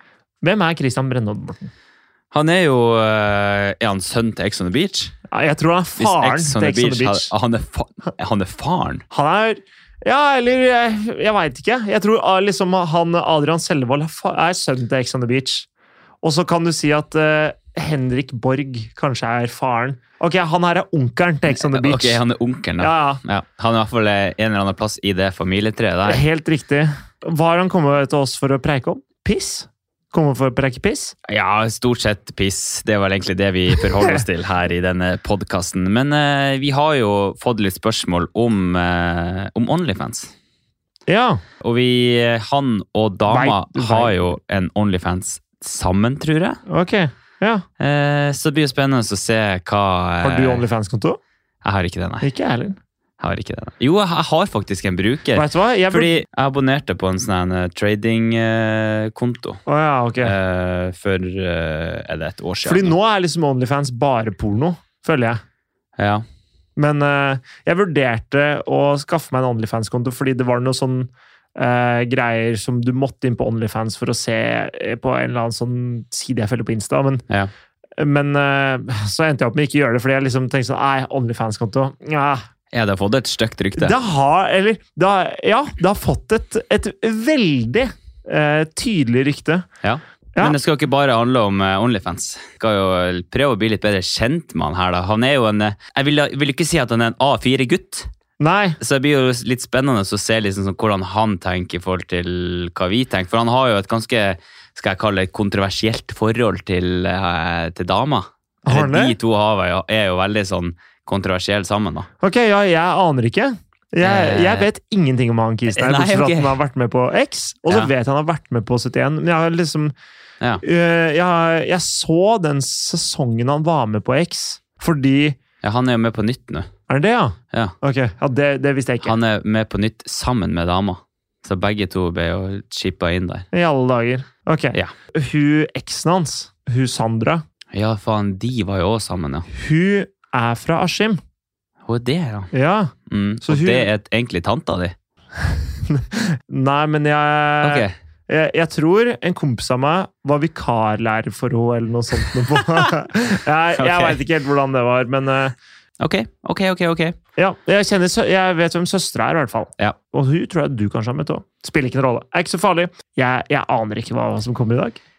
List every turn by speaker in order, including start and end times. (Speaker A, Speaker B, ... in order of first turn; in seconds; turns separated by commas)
Speaker A: 0.4-1.7, Speaker B: 2.3-5.1, Speaker A: 5.3-7.3, Speaker B: 6.0-9.0, Speaker A: 9.1-15.7, Speaker A: 16.2-22.2, Speaker B: 21.6-26.2, Speaker A: 22.8-23.2, Speaker A: 26.1-31.1, Speaker B: 31.3-40.3, Speaker A: 41.1-41.4, Speaker B: 41.6-46.6, Speaker A: 43.3-44.3, Speaker A: 46.7-47.6, Speaker B: 47.8-50.6, Speaker A: 50.2-51.2, Speaker B: 51.6-52.3, Speaker A: 52.2-52.8, Speaker B: 53.2-59.6, Speaker A: 55.4-56.1, Speaker A: 59.7-60.4, Speaker B: 60.2-63.0, Speaker A: 62.6-65.4, Speaker B: 66.0-66.2, Speaker A: 66.8-77.2, Speaker A: 78.0-82.5, Speaker B: 82.7-84.0, Speaker A: 83.8-89.7, Speaker B: 89.8-98.1, Speaker A: 98.4-98.8, Speaker B: 98.8-112.1, Speaker A: 108.7-109.2, Speaker A: 112.2-119.9, Speaker B: 114.0-114.7, Speaker B: 115.7-116.6, Speaker A: 120.6-125.4, Speaker B: 125.6-126.7, Speaker A: 126.9-129.2, Speaker B: 129.0-133.5, Speaker A: 133.5-137.4, Speaker B: 137.7-139.5, Speaker A: 139.5-141.2, Speaker B: 141.9-142.5, Speaker A: 142.5-142.9, Speaker B: 143.1-144.9, Speaker A: 143.4-143.9, Speaker A: 145.9-155.6, Speaker B: 147.6-147.9, Speaker B: 153.8-154.2, Speaker B: 156.0-157.2, Speaker A: 157.4-165.0